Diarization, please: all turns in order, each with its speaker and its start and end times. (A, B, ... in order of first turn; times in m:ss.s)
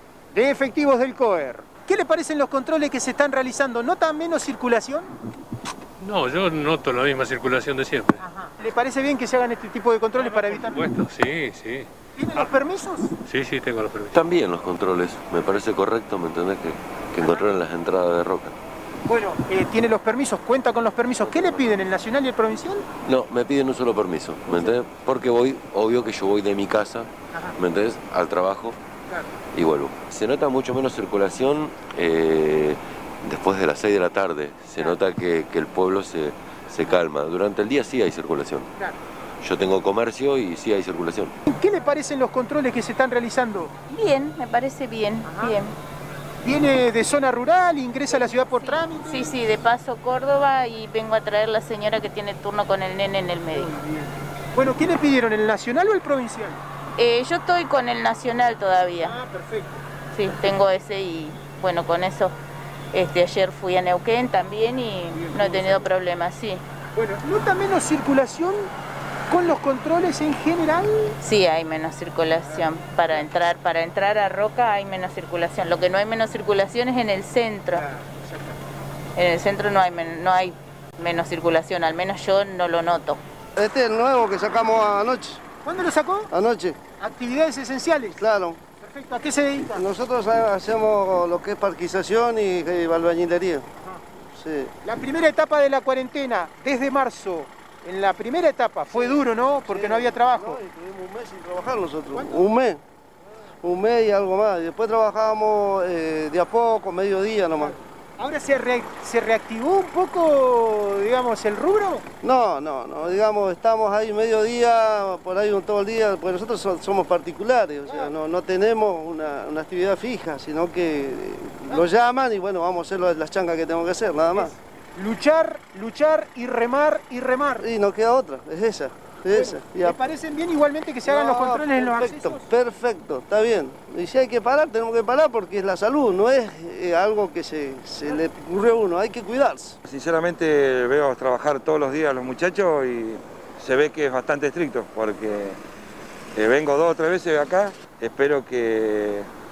0:00.3-0:05.1 A
0:06.0-0:08.2 B
0:08.2-0:10.9 A
0:10.2-0:12.4 B
0:12.1-0:13.1 A
0:13.2-0:14.2 B
0:14.1-0:18.5 C
0:17.2-0:17.5 A
0:19.0-0:22.9 A
0:21.2-0:21.9 C
0:23.0-0:28.8 C
0:29.5-0:38.7 C
0:39.4-0:41.3 C
0:41.5-0:43.7 A
0:43.9-0:45.8 D
0:45.2-0:45.6 A
0:46.4-0:49.4 A
0:48.1-0:53.7 D
0:53.5-0:56.6 A
0:57.0-0:59.2 D
0:59.0-0:59.8 A
1:00.1-1:02.4 D
1:02.9-1:06.6 D
1:05.1-1:05.9 A
1:06.9-1:08.7 A
1:09.3-1:11.2 A
1:11.2-1:17.9 D
1:12.4-1:13.5 A
1:17.7-1:18.6 A
1:19.1-1:23.2 D
1:23.6-1:25.4 E
1:25.6-1:26.3 A
1:26.3-1:26.8 E
1:27.0-1:28.2 A
1:28.2-1:28.6 E
1:28.8-1:29.8 A
1:29.7-1:33.6 E
1:34.3-1:34.7 E
1:34.8-1:40.6 A
1:38.9-1:42.8 E
1:42.1-1:42.5 A
1:43.6-1:47.8 E
1:47.6-1:52.0 A
1:52.2-2:04.5 E
2:04.3-2:07.7 A
2:07.6-2:10.0 E
2:09.3-2:12.4 A
2:11.0-2:19.8 E
2:19.8-2:25.6 F
2:26.3-2:29.3 F